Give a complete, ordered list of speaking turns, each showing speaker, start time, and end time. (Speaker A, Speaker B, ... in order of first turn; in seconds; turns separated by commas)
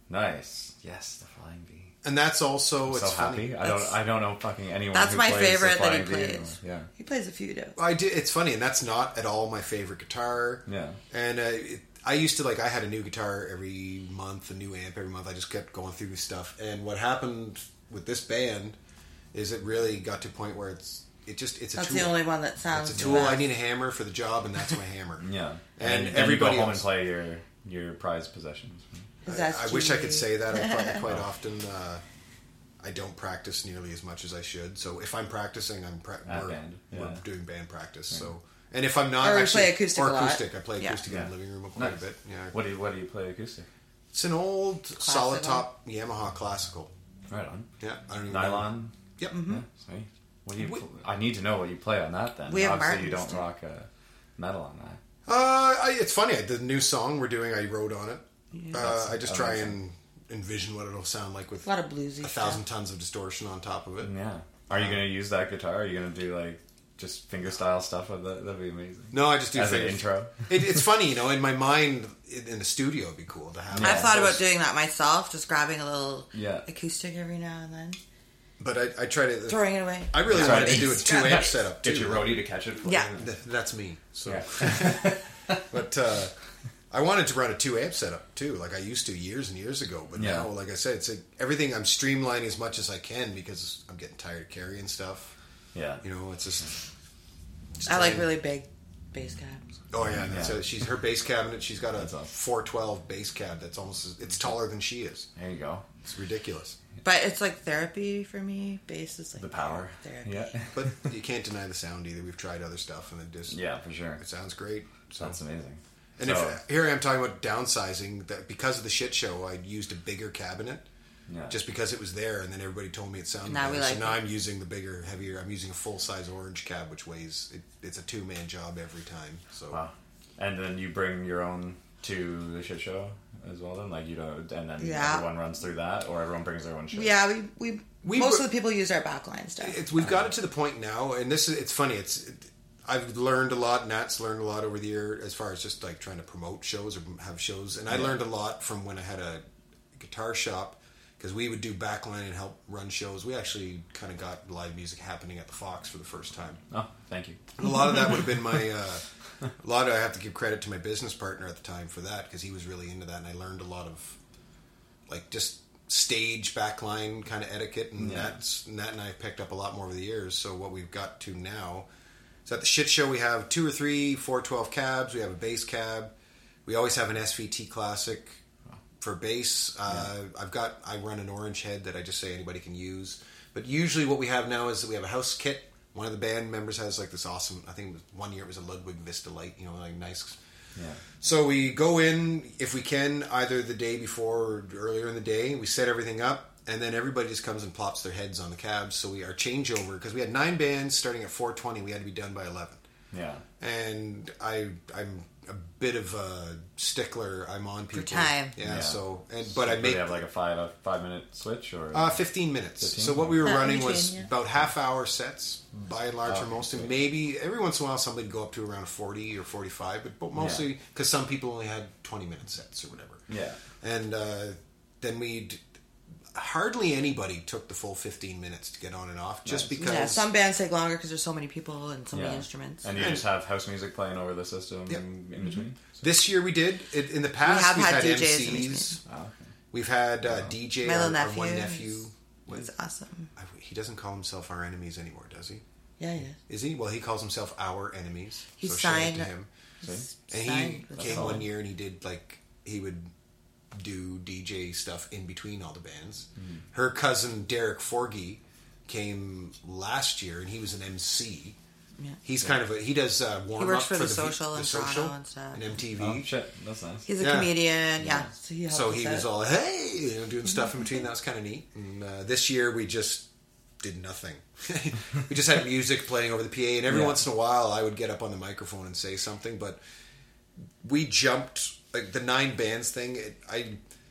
Speaker A: 0.1-1.9, Speaker B: 2.0-3.5, Speaker A: 2.8-6.9, Speaker C: 3.6-4.0, Speaker C: 4.9-7.8, Speaker B: 7.8-18.8, Speaker A: 10.7-11.0, Speaker B: 19.3-22.2, Speaker C: 21.8-23.5, Speaker B: 22.7-26.9, Speaker A: 23.0-23.3, Speaker A: 25.2-29.1, Speaker B: 29.2-32.0, Speaker C: 29.3-31.0, Speaker B: 32.8-42.6, Speaker A: 36.3-37.2, Speaker C: 39.2-41.0, Speaker A: 41.1-43.7, Speaker B: 44.1-46.9, Speaker C: 45.0-45.7, Speaker A: 47.3-47.7, Speaker B: 47.8-49.4, Speaker A: 48.3-55.0, Speaker C: 49.3-49.6, Speaker B: 50.6-50.8, Speaker C: 52.5-53.5, Speaker B: 55.3-61.7, Speaker C: 58.5-58.8, Speaker A: 58.7-59.8, Speaker C: 61.6-62.6, Speaker B: 62.2-64.1, Speaker A: 64.0-70.5, Speaker B: 64.7-65.0, Speaker B: 69.1-74.4, Speaker A: 73.7-74.2, Speaker C: 73.8-78.0, Speaker A: 76.3-76.7, Speaker B: 78.6-82.4, Speaker C: 79.5-81.5, Speaker A: 80.3-83.3, Speaker C: 82.8-83.1, Speaker B: 83.2-86.3, Speaker A: 84.2-85.6, Speaker B: 86.9-95.3, Speaker A: 90.2-90.5, Speaker A: 95.7-96.0, Speaker B: 96.0-96.7, Speaker B: 97.8-98.3, Speaker C: 97.8-99.6, Speaker B: 99.9-105.3, Speaker A: 100.2-100.6, Speaker A: 102.0-102.3, Speaker A: 105.4-105.9, Speaker B: 106.0-106.8, Speaker C: 107.0-110.5, Speaker A: 109.4-111.1, Speaker B: 110.7-113.6, Speaker A: 113.5-114.2, Speaker B: 114.2-115.4, Speaker A: 115.2-116.6, Speaker B: 116.2-120.9, Speaker A: 121.3-121.6, Speaker B: 121.5-129.8, Speaker C: 123.5-124.2, Speaker A: 129.7-137.2, Speaker C: 134.8-135.3, Speaker C: 136.9-139.8, Speaker B: 138.0-138.5, Speaker B: 139.6-149.4, Speaker A: 140.0-140.3, Speaker A: 147.9-148.2, Speaker B: 149.9-156.6, Speaker A: 156.7-157.4, Speaker B: 157.6-159.0, Speaker B: 159.6-164.2, Speaker B: 165.1-171.9, Speaker A: 168.0-168.4, Speaker B: 172.5-176.1, Speaker B: 176.7-178.4, Speaker B: 179.0-190.4, Speaker A: 190.8-191.0, Speaker B: 191.2-202.8, Speaker A: 203.1-203.4, Speaker B: 203.6-210.2, Speaker C: 207.9-208.6, Speaker A: 208.6-212.2, Speaker B: 211.9-223.2, Speaker A: 212.8-213.5, Speaker C: 213.4-214.3, Speaker A: 216.2-216.9, Speaker A: 220.3-220.7, Speaker A: 223.3-223.6, Speaker B: 223.8-225.6, Speaker B: 226.3-230.3, Speaker A: 229.4-229.9, Speaker C: 229.8-232.9, Speaker A: 232.1-236.0, Speaker B: 232.9-233.3, Speaker B: 236.0-239.0, Speaker C: 237.4-238.9, Speaker A: 239.1-239.4, Speaker B: 239.7-242.7, Speaker C: 240.8-243.3, Speaker B: 243.4-245.6, Speaker C: 246.0-246.4, Speaker B: 246.5-249.5, Speaker C: 248.6-249.3, Speaker C: 249.8-251.4, Speaker B: 250.3-253.1, Speaker A: 251.0-251.5, Speaker B: 253.7-261.6, Speaker B: 262.2-266.3, Speaker C: 263.6-265.6, Speaker A: 265.9-267.1, Speaker C: 267.1-269.3, Speaker B: 267.2-267.6, Speaker A: 268.0-268.3, Speaker B: 268.7-273.3, Speaker B: 273.8-279.8, Speaker A: 276.9-277.2, Speaker B: 280.8-283.8